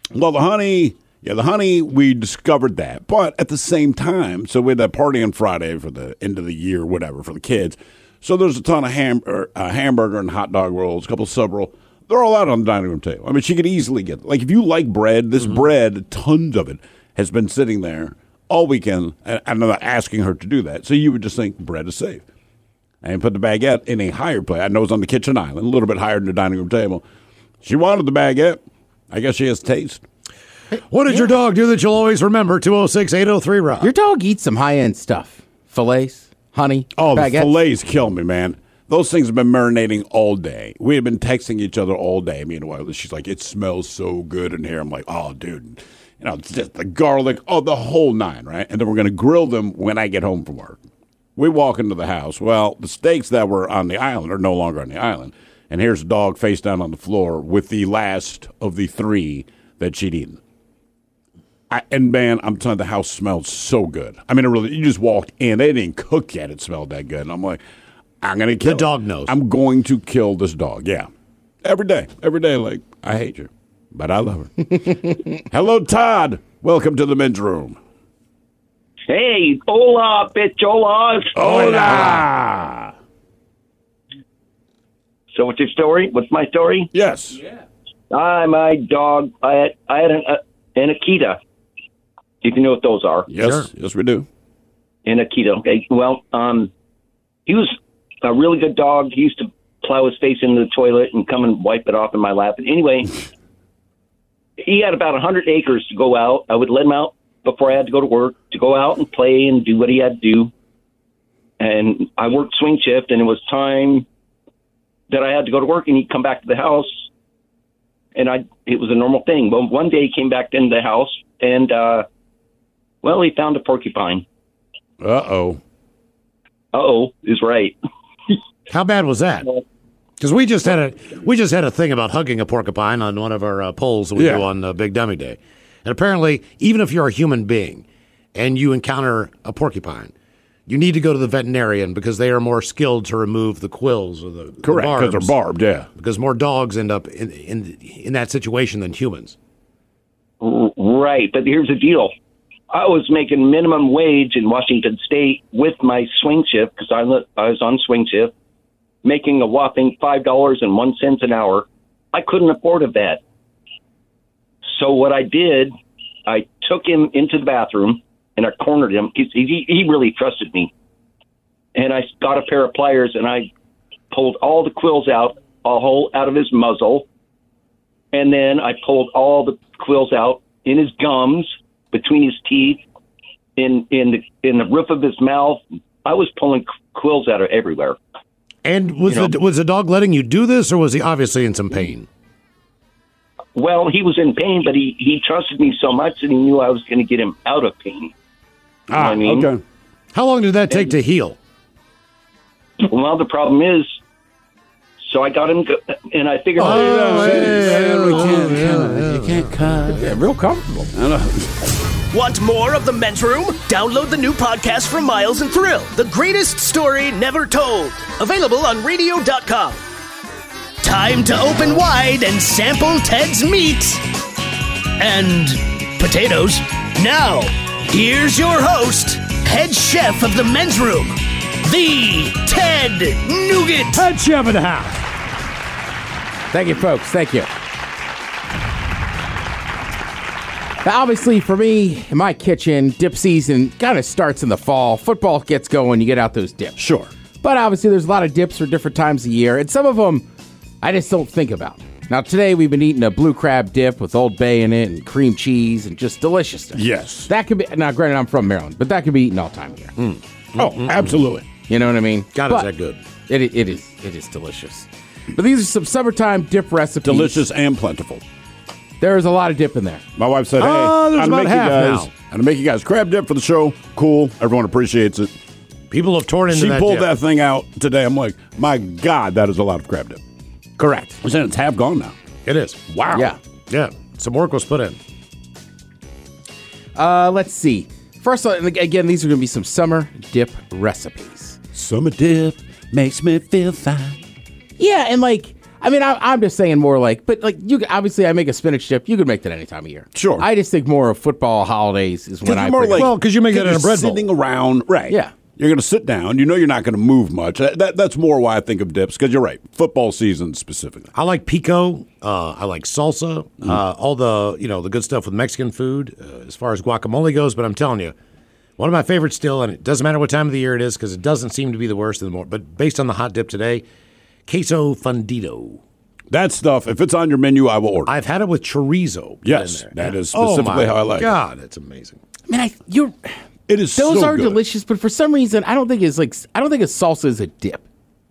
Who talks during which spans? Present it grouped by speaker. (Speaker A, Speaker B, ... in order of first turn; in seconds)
Speaker A: 0.1-22.2, 23.0-27.0, 27.6-30.0, 37.0-50.8, 51.4-60.4, 61.7-67.6, 68.2-71.1, 71.6-77.8, 81.3-82.9, 86.9-87.4, 93.3-94.3, 125.0-125.6, 134.2-134.5, 144.6-145.9, 198.9-199.6, 206.6-210.2, 210.9-211.6, 246.8-247.1, 256.7-257.3, 260.6-261.5, 267.1-268.2, 270.2-275.3, 276.5-280.2, 281.2-282.1, 282.9-283.3, 291.7-294.2, 300.1-300.5, 302.4-311.1, 326.3-328.1, 329.4-331.3, 333.7-334.6
Speaker B: 30.9-33.9, 68.6-69.4, 81.5-82.2, 93.4-93.7, 128.7-129.5, 130.2-137.8, 138.3-140.1, 140.7-145.3, 146.0-149.4, 188.6-192.1, 200.1-201.4, 206.6-209.4, 233.9-235.0, 260.0-261.2, 262.3-263.0, 270.6-272.1, 275.9-277.1, 282.5-282.8, 283.7-285.0, 302.9-304.3, 311.1-318.1, 318.8-323.9, 324.5-325.8, 328.1-332.2
Speaker C: 33.8-37.5, 81.9-82.2, 209.7-210.9, 236.5-237.5, 240.8-246.8, 247.4-250.3, 250.8-259.9, 261.6-262.7, 263.3-267.4, 269.0-270.1, 280.8-281.2, 287.0-291.6, 294.8-303.1, 305.1-305.4, 332.5-333.2, 333.9-337.8
Speaker D: 79.1-81.4, 85.3-86.9, 88.1-91.4, 92.4-93.3, 95.1-96.7, 97.5-103.1, 104.6-110.5, 111.6-114.0, 115.1-117.1, 118.2-122.0, 123.0-124.2, 126.7-127.8, 150.4-152.1, 152.7-158.3, 159.0-163.2, 164.7-165.8, 166.3-170.7, 171.8-173.5, 174.1-177.1, 178.1-182.8, 183.6-188.0, 193.6-198.1, 198.9-199.5, 200.7-201.0, 202.8-204.0, 205.1-207.2
Speaker E: 212.1-219.8, 220.8-224.0, 225.0-234.1